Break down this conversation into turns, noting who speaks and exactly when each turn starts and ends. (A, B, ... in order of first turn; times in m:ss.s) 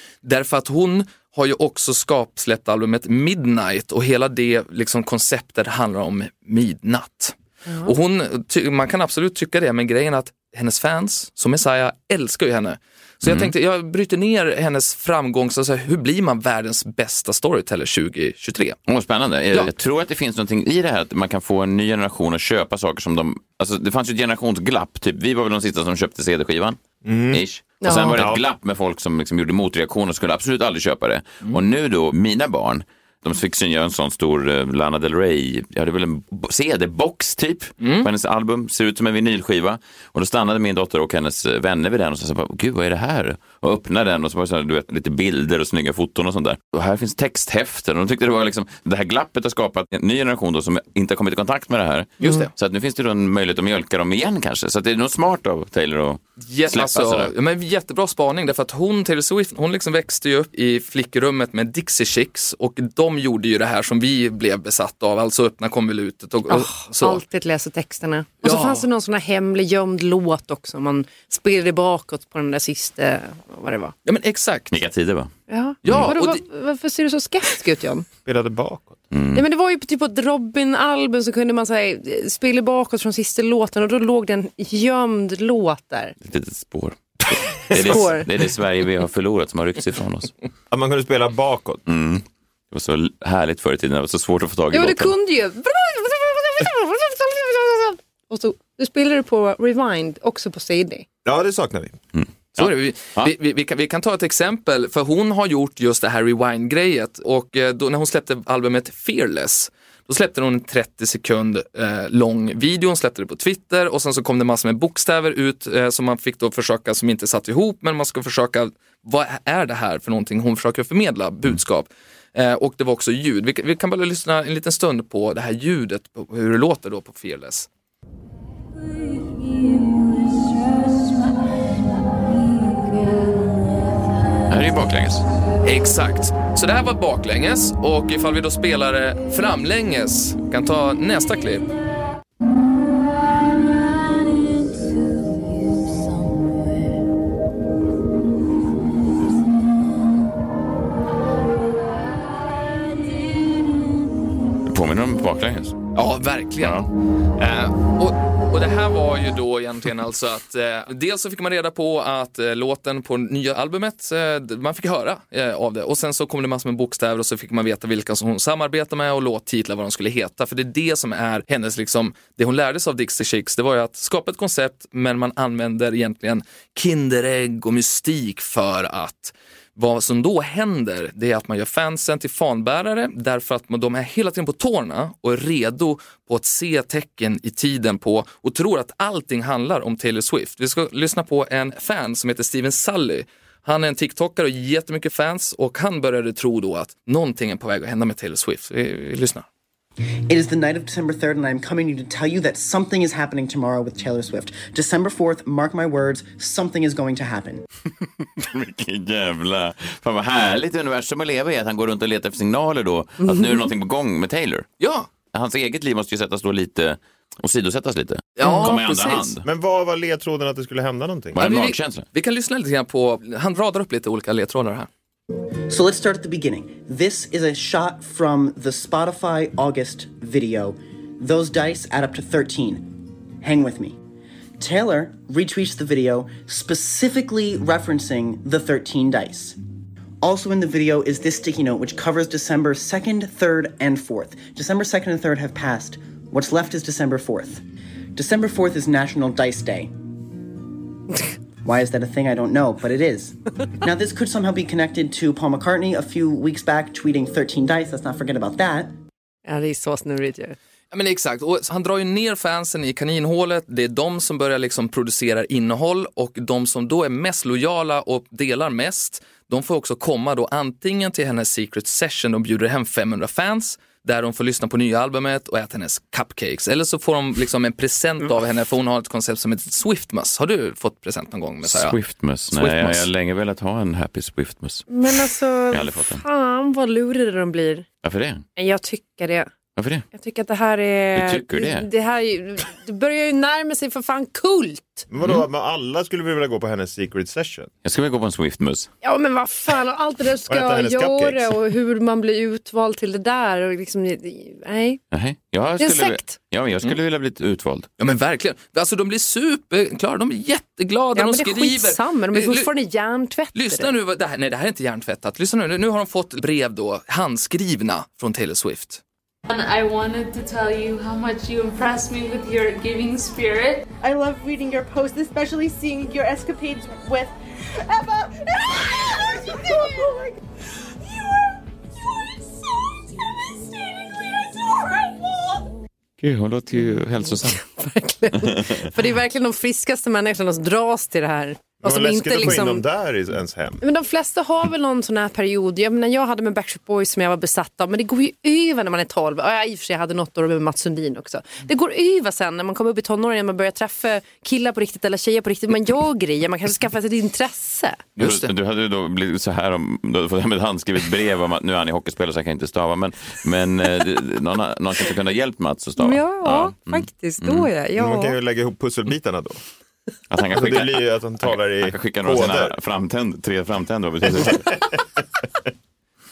0:00.2-0:18.8 A
0:07.7-0:07.9 B
0:13.2-0:13.5 C
0:18.9-0:26.8 C
0:27.0-0:27.4 D
0:27.3-0:57.3 C
0:27.8-0:28.2 B
0:28.1-0:28.4 D
0:37.8-0:38.1 A
0:52.2-0:52.5 A
0:56.4-1:07.2 A
1:06.5-1:13.9 B
1:08.4-1:08.9 A
1:14.1-1:14.8 A
1:14.7-1:15.3 C
1:15.5-1:18.1 B
1:15.8-1:16.4 A
1:18.2-1:19.0 D
1:19.1-1:19.4 C
1:19.3-1:26.1 B
1:26.2-1:30.3 C
1:27.7-1:28.3 B
1:30.7-1:31.8 D
1:31.9-1:35.1 C
1:34.7-1:41.1 B
1:41.2-1:42.0 D
1:42.1-1:43.3 C
1:42.6-2:07.7 A
2:14.5-2:15.2 C
2:15.6-2:21.7 A
2:34.7-2:35.8 C
2:36.0-2:36.8 A
2:36.6-2:36.9 C
2:37.4-3:19.5 A
3:20.3-3:27.6 E
3:28.4-3:34.7 C
3:34.8-3:35.1 A
3:35.3-3:39.4 C
3:38.4-3:39.3 A
3:38.4-3:38.7 B
3:39.4-3:41.4 D
3:41.4-3:42.0 C
3:41.4-3:44.9 A
3:45.7-3:54.0 E
3:54.6-3:59.6 E
4:00.2-4:07.6 E
4:08.2-4:09.9 E
4:11.6-4:19.0 E
4:19.5-4:20.6 B
4:20.9-4:42.0 A
4:41.6-4:44.9 C
4:42.5-4:43.1 A
4:44.9-4:47.9 B
4:45.7-4:46.2 C
4:48.0-4:48.5 C
4:48.6-4:49.5 B
4:49.8-4:50.1 C
4:50.1-4:55.1 B
4:51.2-4:51.9 C
4:55.1-4:57.7 D
4:57.8-4:58.9 C
4:59.0-5:05.0 B
5:00.5-5:01.6 D
5:05.1-5:07.9 C
5:05.8-5:06.4 B
5:08.0-5:12.7 A
5:11.2-5:13.9 B
5:13.5-5:19.0 A
5:19.5-5:23.9 F
5:24.0-5:35.7 G
5:36.2-5:37.6 C
5:37.4-5:42.8 B
5:41.8-5:43.8 D
5:43.8-5:58.4 B
5:58.2-6:07.7 C
6:06.0-6:08.4 B
6:08.0-6:09.6 D
6:10.3-6:14.9 C
6:10.5-6:12.8 D
6:14.2-6:15.0 D